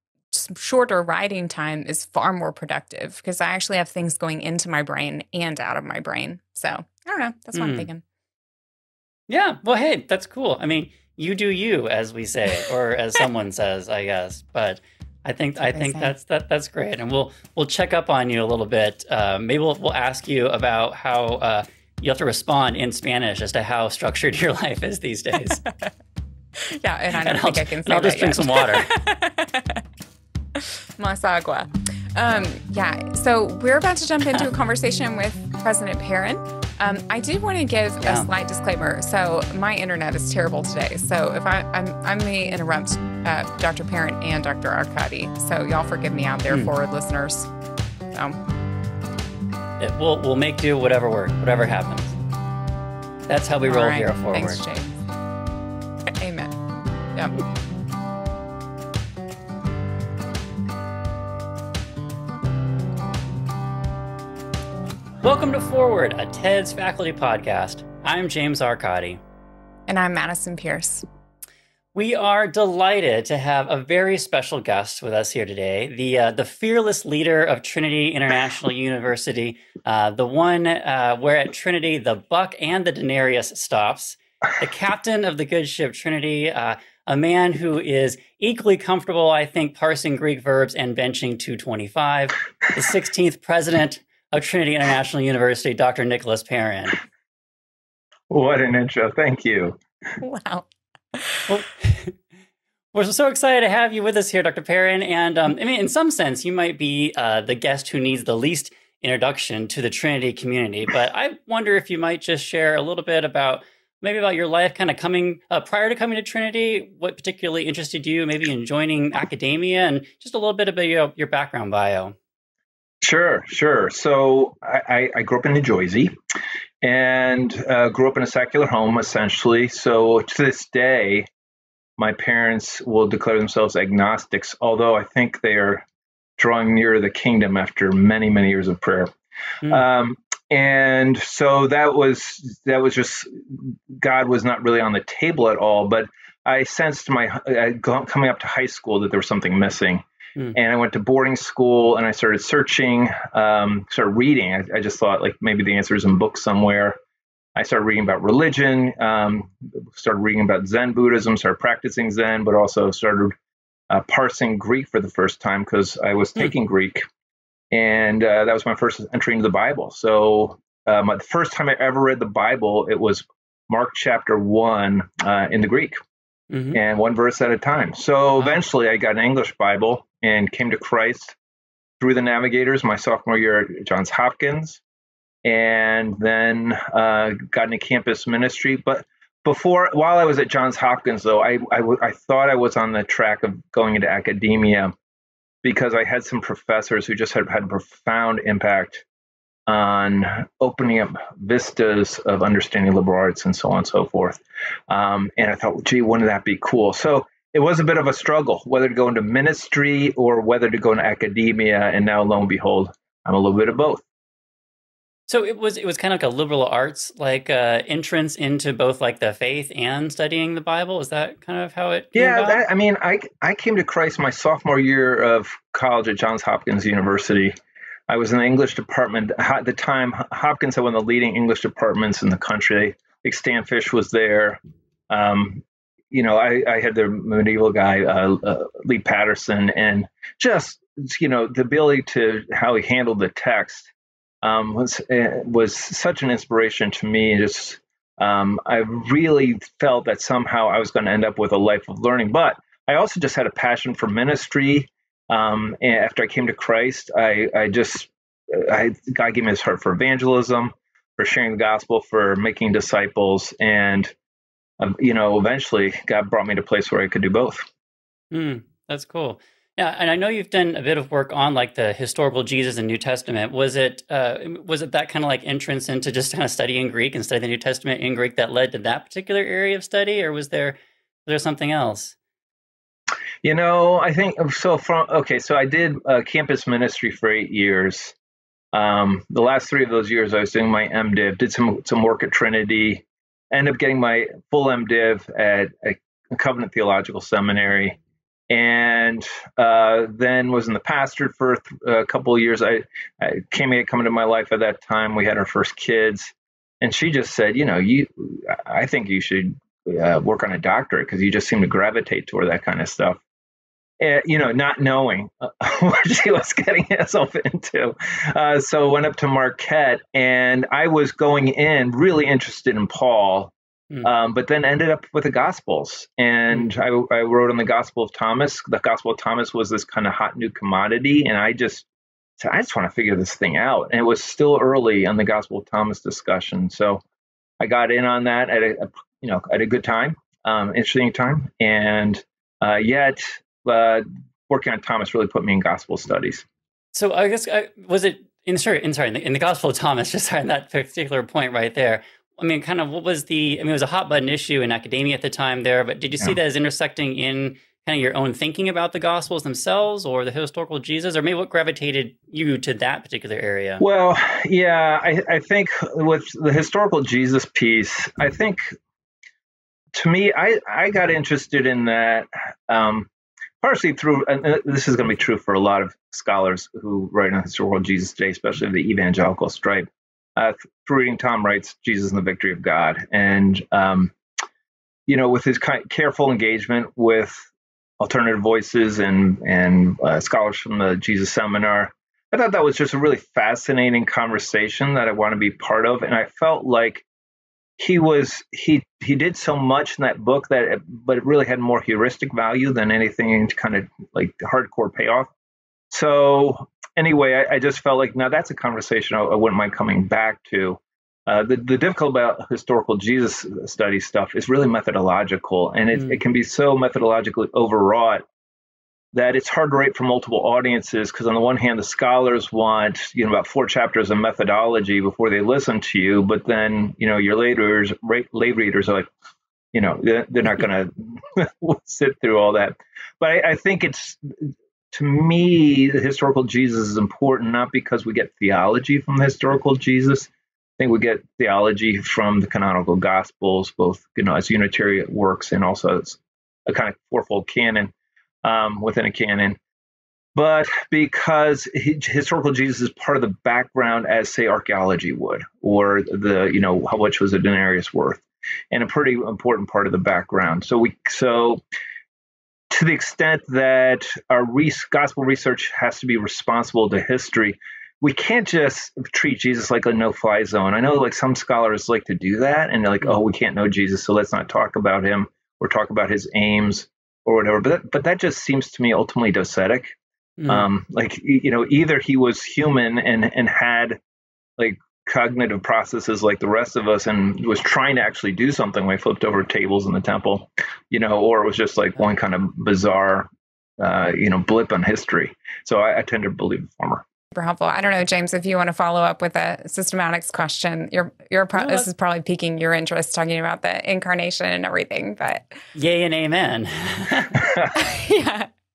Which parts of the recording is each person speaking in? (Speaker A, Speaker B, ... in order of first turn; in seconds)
Speaker A: 0.3-8.0, 15.6-16.1, 26.6-29.8, 30.6-47.5, 53.7-55.0, 56.2-56.5, 69.9-71.0, 100.2-101.4, 497.3-505.5, 507.7-508.5
Speaker B: 7.5-7.9, 9.3-25.6, 27.2-28.9, 38.0-38.3, 49.8-52.1, 53.3-54.6, 65.2-69.2, 71.9-97.0, 101.5-102.1, 102.9-122.1, 176.5-176.8, 215.3-222.6, 268.3-282.1, 346.9-363.9, 480.4-480.7, 501.6-501.9, 505.8-507.4
Speaker C: 98.3-99.8, 123.0-126.1, 126.8-131.3, 132.0-135.8, 136.4-139.1, 139.6-150.0, 150.5-157.0, 157.6-163.3, 163.9-167.0, 167.7-176.0, 176.7-181.3, 182.0-184.8, 185.4-194.9, 195.6-199.0, 199.7-214.0, 222.1-227.5, 228.1-234.6, 235.1-243.9, 244.4-264.1, 264.8-267.6, 283.4-288.1, 288.7-298.0, 298.5-313.2, 314.0-323.5, 324.0-331.9, 332.4-337.0, 337.6-346.4, 363.8-368.6, 369.9-373.1, 373.6-384.1, 385.1-387.5, 388.0-397.0, 397.8-405.3, 405.9-418.2, 419.1-429.1, 429.7-447.9, 448.4-449.6, 450.4-461.6, 462.7-479.9, 480.5-484.0, 484.6-493.3, 493.8-497.0, 507.3-507.7